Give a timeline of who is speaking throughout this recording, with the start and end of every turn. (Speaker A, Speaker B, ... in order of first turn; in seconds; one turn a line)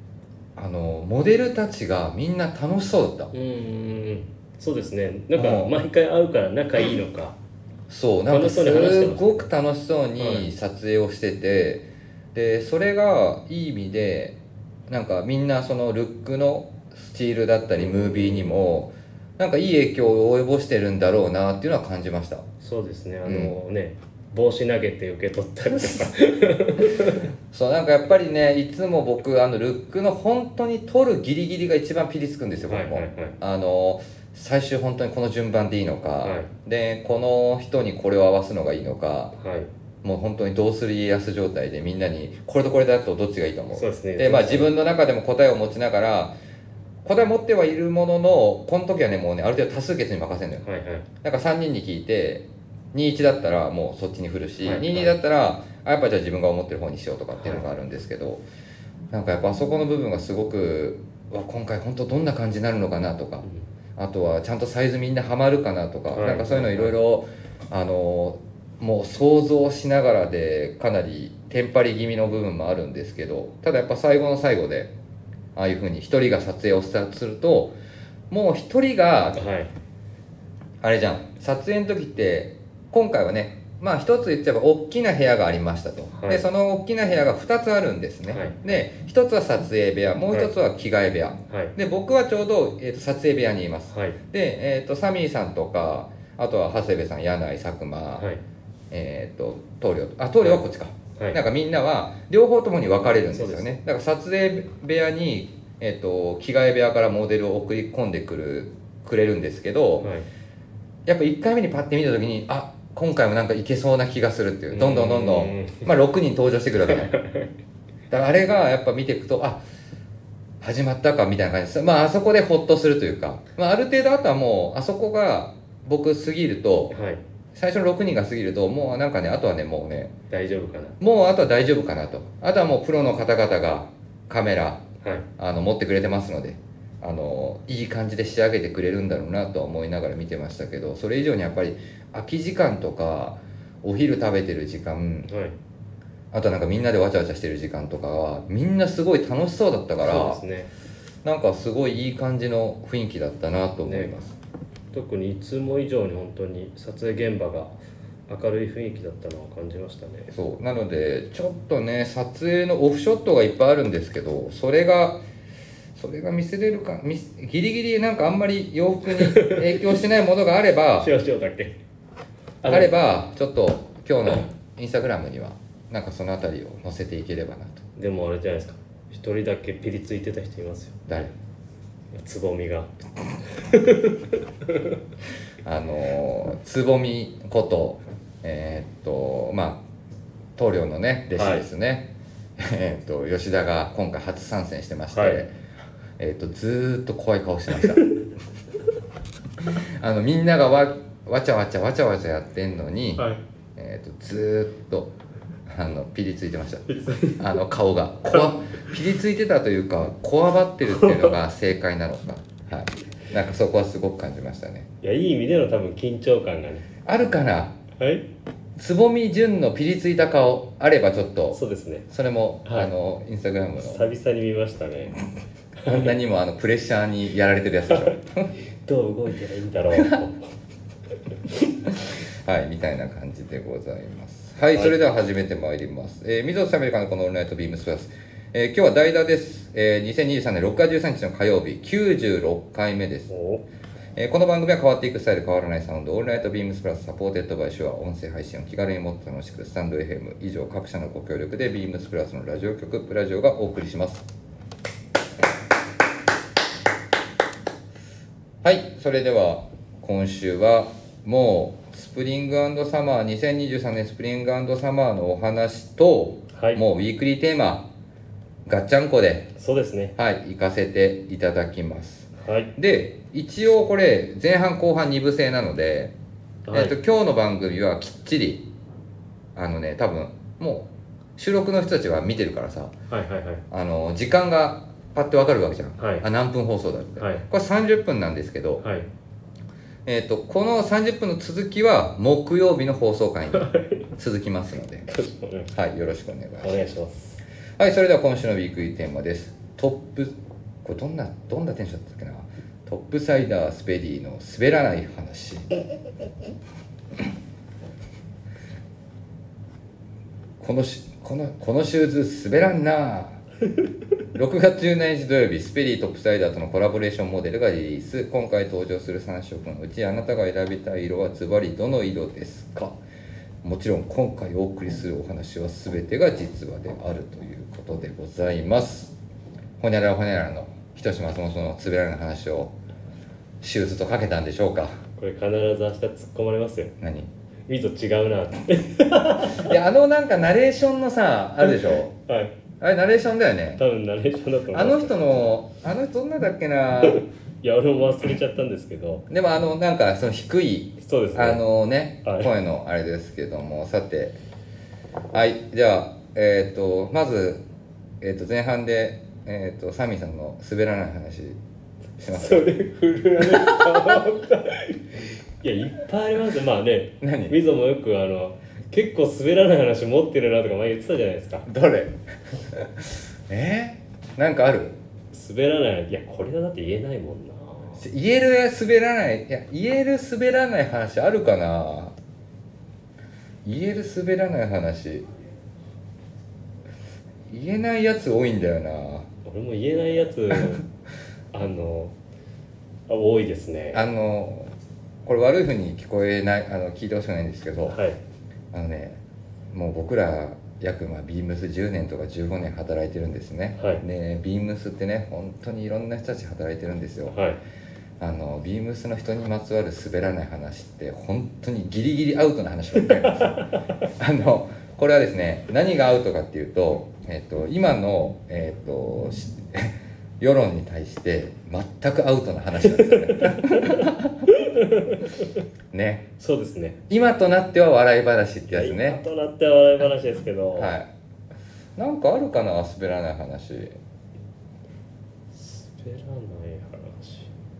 Speaker A: 0.6-3.3
Speaker B: 3.3-7.4
Speaker A: 5.3-5.8
Speaker A: 7.9-14.4
Speaker B: 8.3-9.5
Speaker B: 10.2-10.5
Speaker A: 14.9-22.4
Speaker B: 18.0-18.5
Speaker B: 22.6-27.3
Speaker A: 23.2-23.6
Speaker A: 25.8-26.1
Speaker A: 27.5-39.4
Speaker B: 32.7-33.4
Speaker B: 36.2-36.5
Speaker B: 39.4-39.7
Speaker A: 40.0-46.3
Speaker B: 43.7-44.7
Speaker A: 47.0-50.6
Speaker B: 50.6-51.0
Speaker A: 51.2-58.4
Speaker B: 54.6-55.1
Speaker B: 57.4-57.6
Speaker A: 59.1-74.9
Speaker B: 66.1-67.0
Speaker A: 75.5-77.7
Speaker A: 78.3-79.4
Speaker B: 79.3-79.7
Speaker A: 80.8-98.3
Speaker B: 86.1-86.4
Speaker B: 88.3-88.6
Speaker B: 91.5-91.7
Speaker B: 93.9-94.2
Speaker A: 98.9-110.1
Speaker B: 103.2-103.8
Speaker B: 110.0-110.3
Speaker A: 111.0-117.1
Speaker B: 114.7-115.9
Speaker B: 116.9-117.5
Speaker A: 118.1-119.6
Speaker A: 120.6-126.9
Speaker B: 126.9-127.2
Speaker A: 127.5-130.1
Speaker B: 130.3-131.0
Speaker A: 131.0-134.8
Speaker B: 135.0-135.3
Speaker A: 135.4-145.3
Speaker B: 145.3-145.6
Speaker A: 146.3-150.4
Speaker B: 150.0-150.7
Speaker A: 151.2-154.4
Speaker B: 153.8-154.1
Speaker B: 154.9-157.7
Speaker B: 158.3-160.3
Speaker A: 160.3-165.2
Speaker A: 165.9-171.1
Speaker B: 169.1-169.9
Speaker B: 171.0-171.8
Speaker B: 172.6-172.9
Speaker A: 172.6-177.8
Speaker B: 177.9-181.3
Speaker B: 182.1-182.9
Speaker B: 183.5-185.0
Speaker A: 185.6-189.8
Speaker A: 190.6-195.5
Speaker B: 191.3-191.7
Speaker B: 195.1-195.4
Speaker A: 196.2-198.1
Speaker B: 197.8-198.1
Speaker A: 199.6-205.1
Speaker A: 205.7-214.9
Speaker B: 206.9-207.4
Speaker B: 210.8-211.3
Speaker B: 215.0-216.8
Speaker A: 217.0-217.8
Speaker B: 218.0-218.2
Speaker A: 218.8-221.6
Speaker B: 221.5-222.1
Speaker A: 222.1-224.0
Speaker B: 222.6-222.9
Speaker B: 223.8-225.2
Speaker A: 225.8-228.5
Speaker B: 225.8-226.1
Speaker B: 228.8-230.4
Speaker A: 229.9-230.2
Speaker A: 232.0-243.3
Speaker B: 243.3-243.6
Speaker A: 244.2-254.2
Speaker A: 258.6-267.9
Speaker B: 266.5-266.8
Speaker A: 268.6-269.5
Speaker B: 269.6-270.1
Speaker A: 270.1-276.1
Speaker B: 272.4-272.7
Speaker B: 276.7-276.9
Speaker A: 276.7-278.7
Speaker A: 279.5-282.9
Speaker B: 283.1-283.6
Speaker A: 283.7-288.8
Speaker B: 286.0-286.3
Speaker B: 287.2-287.4
Speaker B: 288.8-289.1
Speaker A: 290.1-295.1
Speaker B: 293.5-294.1
Speaker B: 295.1-295.7
Speaker A: 295.7-296.9
Speaker B: 296.6-297.4
Speaker A: 297.8-305.8
Speaker A: 310.6-313.4
Speaker A: 314.3-322.9
Speaker A: 323.6-329.1
Speaker A: 329.8-332.7
Speaker A: 333.6-335.0
Speaker B: 335.2-336.9
Speaker A: 337.0-337.3
Speaker B: 337.7-339.7
Speaker A: 339.5-342.1
Speaker B: 341.6-342.5
Speaker A: 342.8-343.8
Speaker B: 343.8-345.3
Speaker A: 344.7-347.2
Speaker B: 347.0-349.2
Speaker A: 349.3-354.4
Speaker B: 351.0-351.6
Speaker B: 352.2-352.5
Speaker A: 355.3-357.6
Speaker A: 358.2-361.6
Speaker A: 362.2-362.7
Speaker B: 362.3-365.0
Speaker B: 365.6-371.7
Speaker A: 367.2-367.6
Speaker A: 371.6-374.9
Speaker B: 375.3-378.0
Speaker A: 378.0-382.1
Speaker A: 383.6-385.3
Speaker A: 387.5-389.3
Speaker B: 389.4-390.8
Speaker B: 391.5-392.1
Speaker B: 393.1-394.1
Speaker A: 393.9-394.7
Speaker A: 395.2-398.0
Speaker B: 397.8-398.2
Speaker A: 398.7-399.2
Speaker A: 399.7-407.4
Speaker B: 403.8-404.0
Speaker B: 407.3-407.6
Speaker A: 408.2-424.5
Speaker B: 413.4-413.8
Speaker B: 422.8-425.6
Speaker A: 425.9-426.2
Speaker B: 426.4-427.0
Speaker A: 427.1-429.2
Speaker B: 428.7-430.9
Speaker A: 430.8-431.1
Speaker A: 431.9-434.0
Speaker B: 435.5-437.5